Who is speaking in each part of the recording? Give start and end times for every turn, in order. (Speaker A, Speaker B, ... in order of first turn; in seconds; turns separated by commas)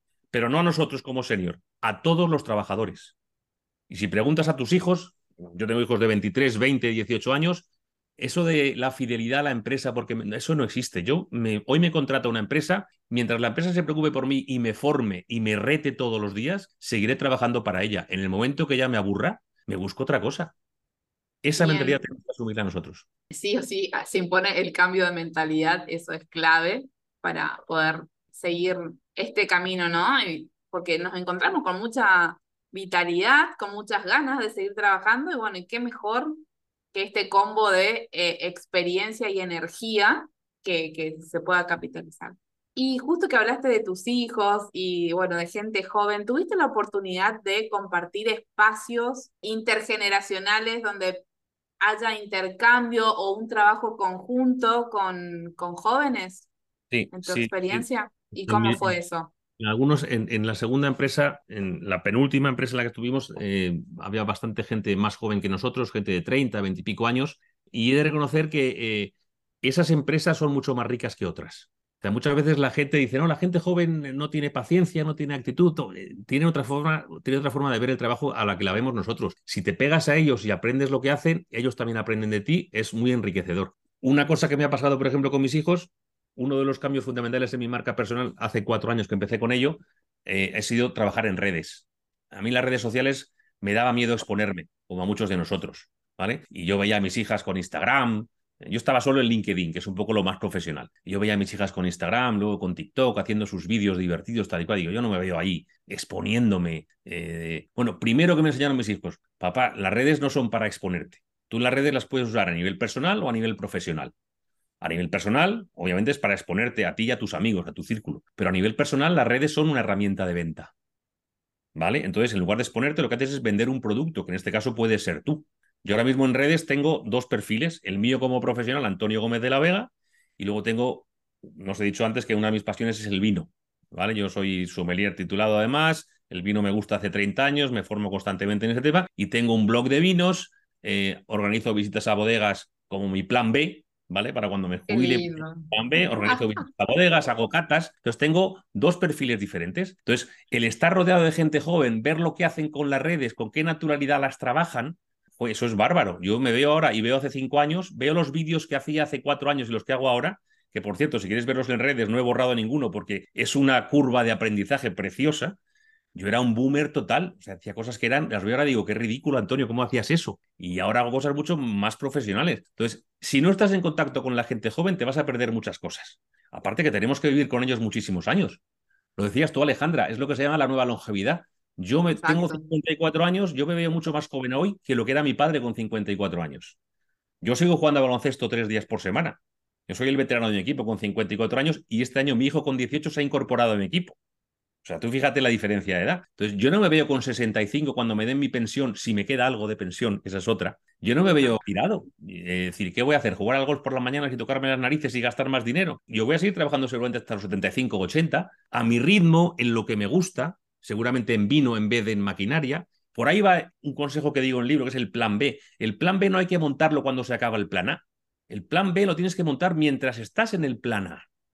Speaker A: 0.3-3.1, Speaker A: 3.9-7.7, Speaker A: 8.2-20.5, Speaker A: 21.4-23.1, Speaker B: 21.6-22.0, Speaker B: 23.3-36.4, Speaker B: 36.9-51.2, Speaker B: 51.8-56.5, Speaker A: 56.9-57.9, Speaker B: 57.1-59.3, Speaker A: 58.4-59.0, Speaker A: 59.6-114.1, Speaker A: 114.8-120.7, Speaker A: 121.8-165.6, Speaker B: 144.9-146.6, Speaker A: 166.1-178.6, Speaker A: 179.2-186.8, Speaker B: 182.2-182.6, Speaker A: 187.4-194.2, Speaker A: 194.8-221.3, Speaker B: 201.3-201.6